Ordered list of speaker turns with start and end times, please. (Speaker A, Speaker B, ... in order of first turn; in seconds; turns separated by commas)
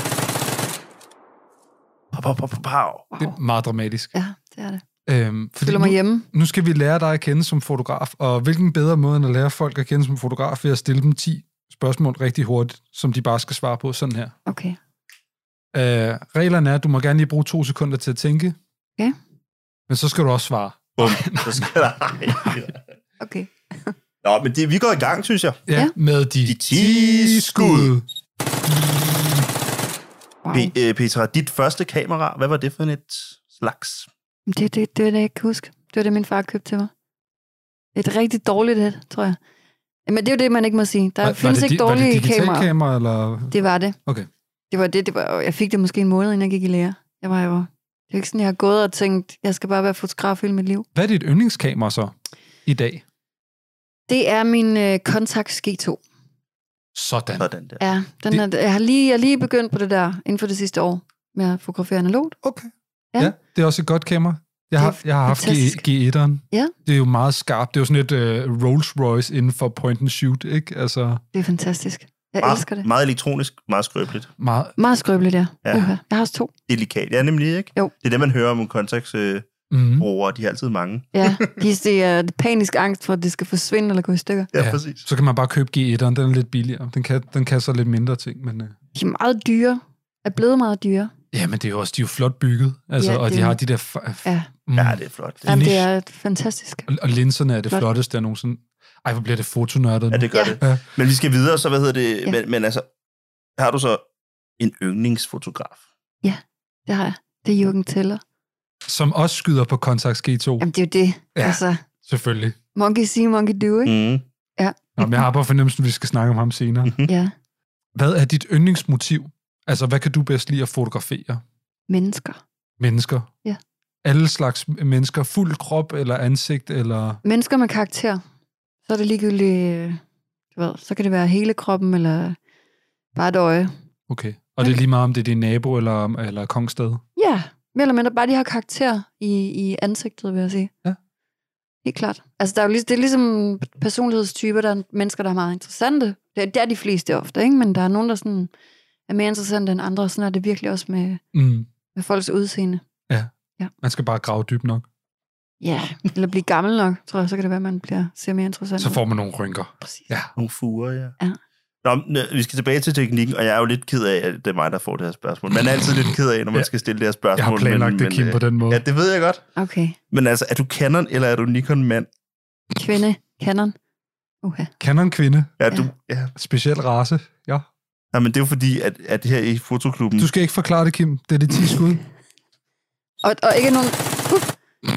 Speaker A: 2.1-3.1, Speaker B: 3.2-4.1, Speaker C: 4.2-4.8, Speaker B: 5.1-14.3, Speaker C: 5.6-6.3, Speaker C: 14.5-14.8, Speaker B: 15.7-18.6, Speaker B: 19.9-21.7, Speaker A: 21.0-22.8, Speaker C: 23.2-23.9, Speaker A: 24.2-25.6, Speaker B: 25.7-28.1, Speaker A: 26.5-27.9, Speaker B: 28.7-29.5, Speaker C: 30.4-30.7, Speaker A: 30.5-34.1, Speaker C: 34.5-36.9, Speaker C: 38.0-39.4, Speaker C: 40.1-42.7, Speaker B: 41.2-43.5, Speaker C: 43.5-44.0, Speaker C: 44.7-50.9, Speaker B: 51.0-53.0, Speaker C: 54.1-56.0, Speaker B: 56.9-57.5, Speaker A: 57.4-57.8, Speaker C: 57.8-62.4, Speaker B: 62.4-71.2, Speaker C: 64.8-65.8, Speaker C: 71.3-72.9, Speaker A: 72.4-74.3, Speaker B: 74.4-74.8, Speaker C: 74.8-76.5, Speaker A: 76.7-81.3, Speaker B: 79.7-80.1, Speaker C: 81.2-84.5, Speaker A: 84.5-85.0, Speaker B: 84.6-88.8, Speaker C: 89.0-91.1, Speaker B: 91.3-95.9, Speaker C: 93.0-93.6, Speaker C: 94.2-94.5, Speaker A: 94.8-95.6, Speaker C: 95.5-96.9, Speaker B: 96.9-100.8, Speaker A: 100.1-102.9, Speaker A: 103.6-104.0, Speaker A: 104.6-105.8, Speaker C: 106.2-108.2, Speaker B: 108.8-110.7, Speaker C: 110.6-111.8, Speaker B: 111.3-112.6, Speaker C: 112.8-113.9, Speaker A: 113.8-114.2, Speaker C: 114.6-115.2, Speaker B: 115.0-116.9, Speaker C: 117.1-117.3, Speaker B: 118.0-121.4, Speaker C: 121.9-122.4, Speaker B: 122.8-123.3, Speaker B: 124.0-127.2, Speaker C: 127.2-128.2, Speaker C: 128.9-130.0, Speaker C: 130.6-132.4, Speaker C: 133.2-133.7, Speaker B: 134.1-137.0, Speaker C: 137.2-140.7, Speaker C: 141.8-148.5, Speaker C: 149.1-151.2, Speaker B: 151.3-151.7, Speaker C: 151.9-152.8, Speaker B: 153.8-154.9, Speaker C: 155.6-159.0, Speaker B: 158.8-160.3, Speaker A: 160.4-161.2, Speaker A: 161.8-169.4, Speaker B: 167.4-168.8, Speaker C: 169.6-170.0, Speaker A: 170.1-172.1, Speaker C: 172.7-173.8, Speaker C: 174.4-174.7, Speaker B: 174.8-175.5, Speaker A: 175.6-176.3, Speaker B: 176.4-177.7, Speaker A: 178.1-180.3, Speaker B: 180.2-182.0, Speaker C: 183.2-184.5